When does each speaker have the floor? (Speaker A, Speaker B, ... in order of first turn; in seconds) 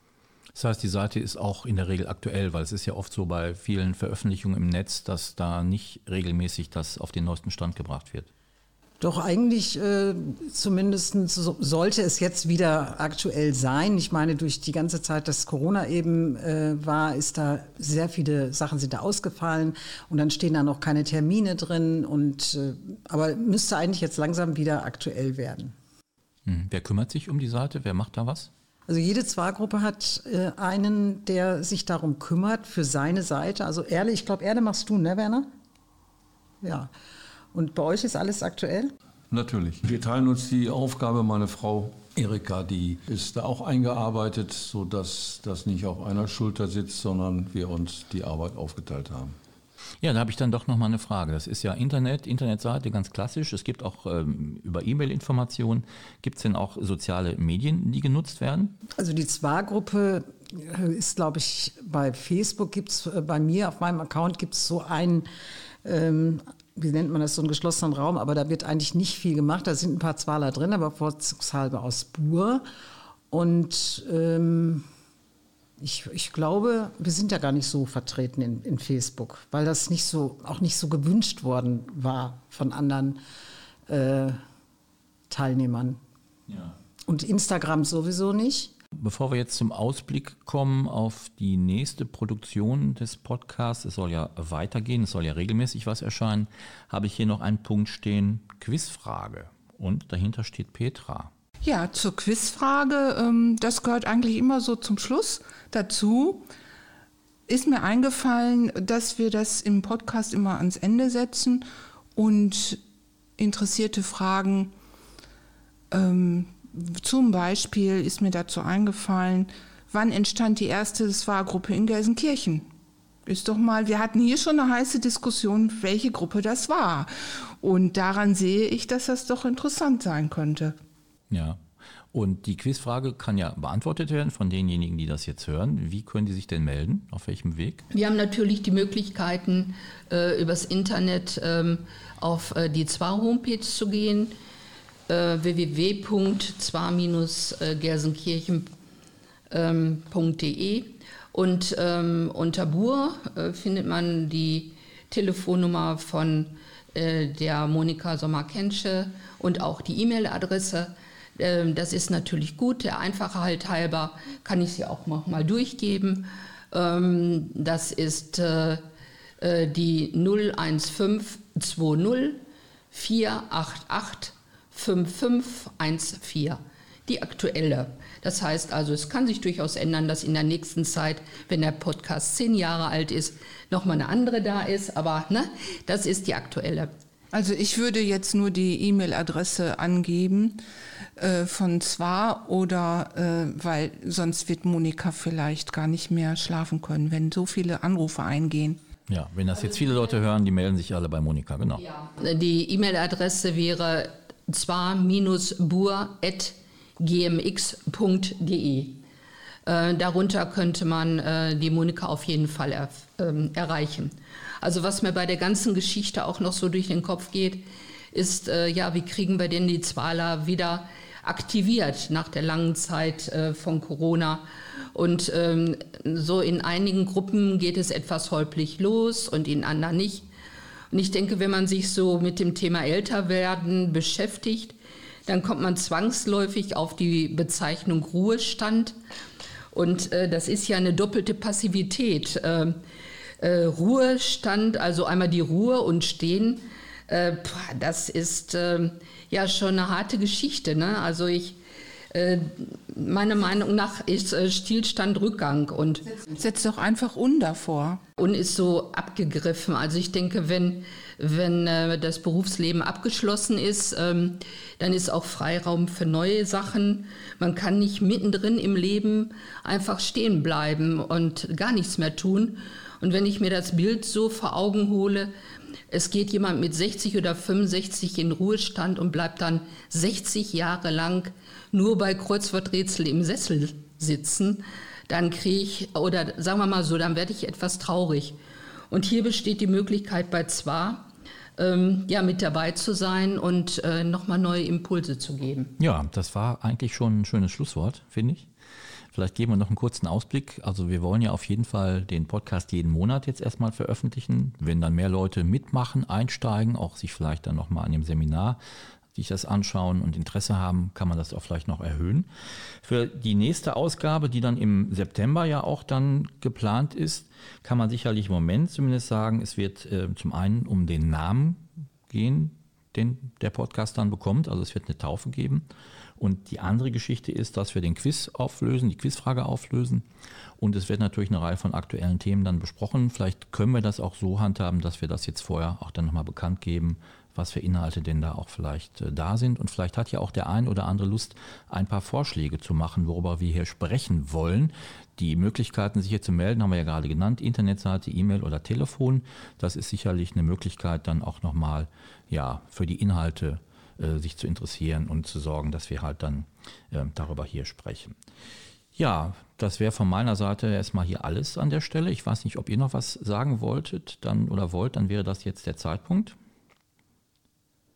Speaker A: 0.5-8.3, 26.4-28.5, 50.0-58.7, 86.5-86.7, 89.0-101.3, 131.3-131.6, 132.1-137.8, 199.1-201.8, 295.8-298.5, 299.1-308.6, 309.1-312.3, 312.8-325.6, 326.2-330.0, 330.6-358.1, 358.9-366.4
Speaker B: 9.0-25.7, 28.9-35.5, 36.6-36.9, 37.5-38.9, 59.0-65.2, 65.8-72.6, 73.3-74.8, 75.8-83.2, 83.9-84.4, 85.3-86.0, 87.1-88.7
Speaker C: 39.3-49.4
Speaker D: 101.6-106.5, 107.5-111.6, 112.1-112.8, 113.4-114.7, 115.9-122.7, 123.2-130.8, 187.3-190.6, 191.2-198.8, 256.4-258.0
Speaker E: 137.9-144.3, 145.1-148.7, 149.5-168.8, 169.4-186.9, 201.8-209.0, 209.7-217.6, 218.1-230.3, 230.9-234.8, 235.3-238.9, 239.7-242.8, 243.4-251.6, 252.1-256.1, 258.2-275.3, 275.9-288.4, 288.9-295.7